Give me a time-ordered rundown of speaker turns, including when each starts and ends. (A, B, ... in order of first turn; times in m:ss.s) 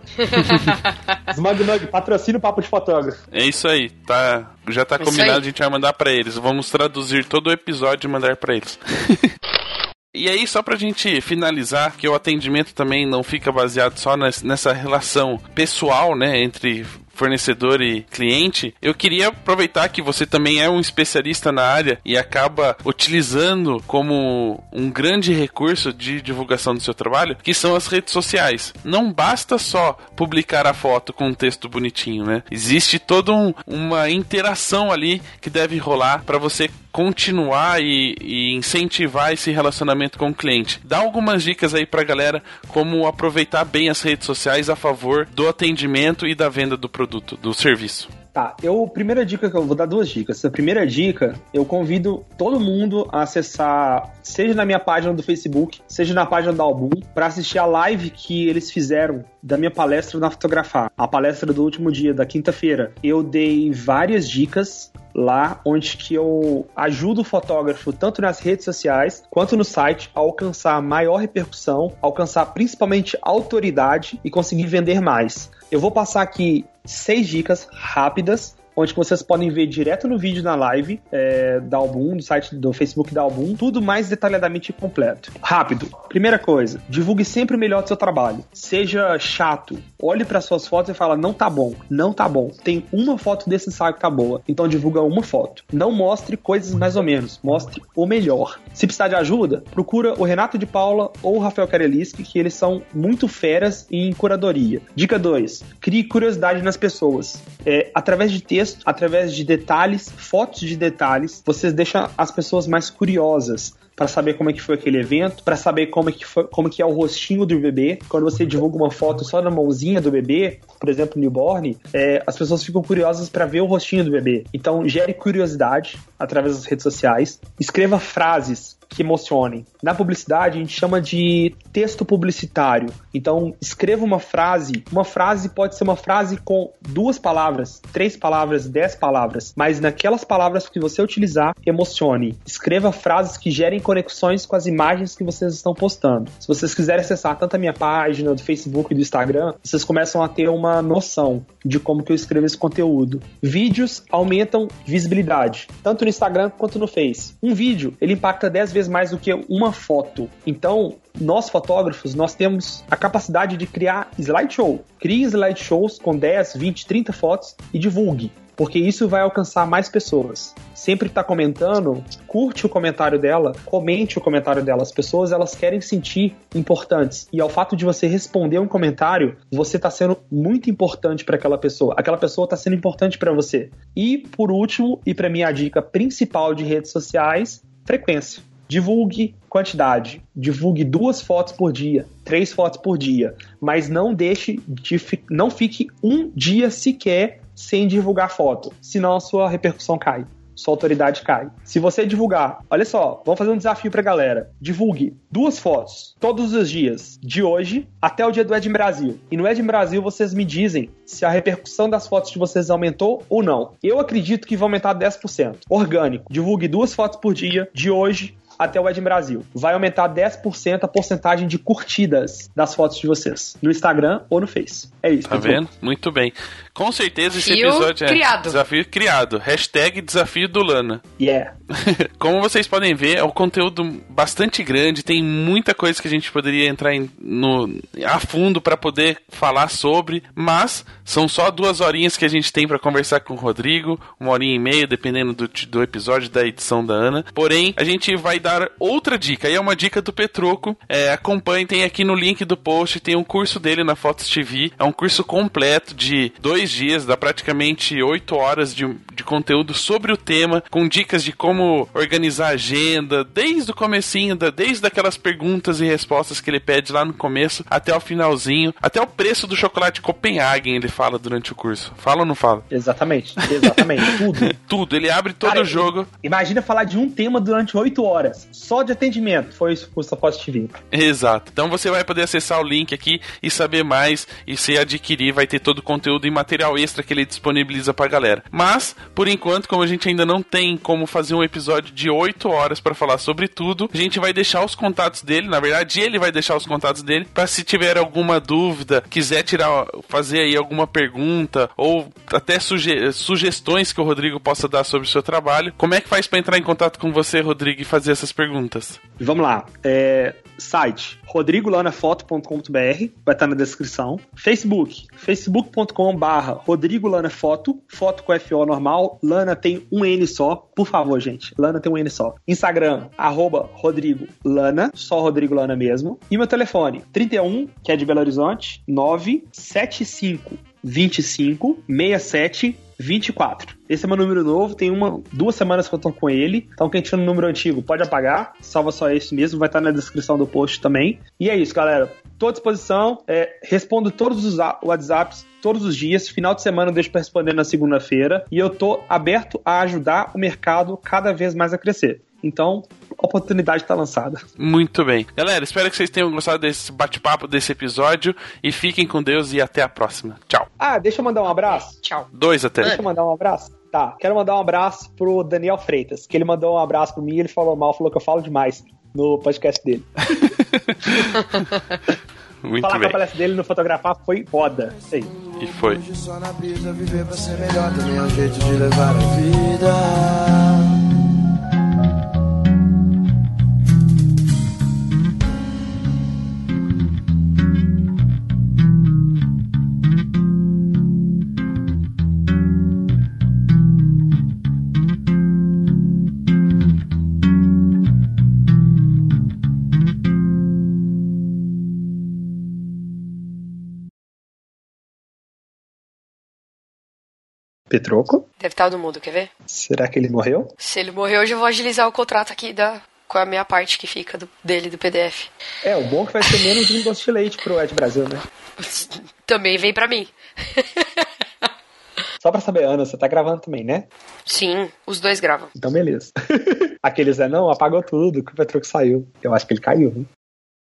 0:00.3-0:00.8 A
0:01.3-0:03.2 B
0:03.3-0:09.3 C
0:05.0-0:05.4 A
0:10.1-0:48.1 C
0:48.3-3:45.6 B
3:45.3-3:51.0 C
3:47.3-3:48.6 A
3:51.2-3:51.5 B
3:51.7-4:32.6 C
4:32.7-4:34.5 B
4:33.5-4:36.1 C
4:35.4-4:40.8 B
4:40.9-5:09.0 C
5:09.2-5:54.4 B
5:54.6-6:00.7 C
6:00.8-6:02.0 B
6:01.7-6:02.3 A
6:02.3-6:03.0 C
6:02.8-6:10.1 B
6:10.3-6:11.6 C
6:12.6-6:13.2 C
6:12.8-6:15.3 B
6:15.6-6:16.0 C
6:15.6-6:20.8 D
6:47.9-6:48.4 B
6:48.6-6:49.5 A
6:49.7-6:50.7 B
6:50.8-6:55.5 A
6:55.8-6:58.4 B
6:58.8-7:01.2 A
7:02.4-7:04.1 B
7:04.5-7:05.7 A
7:05.7-7:10.3 B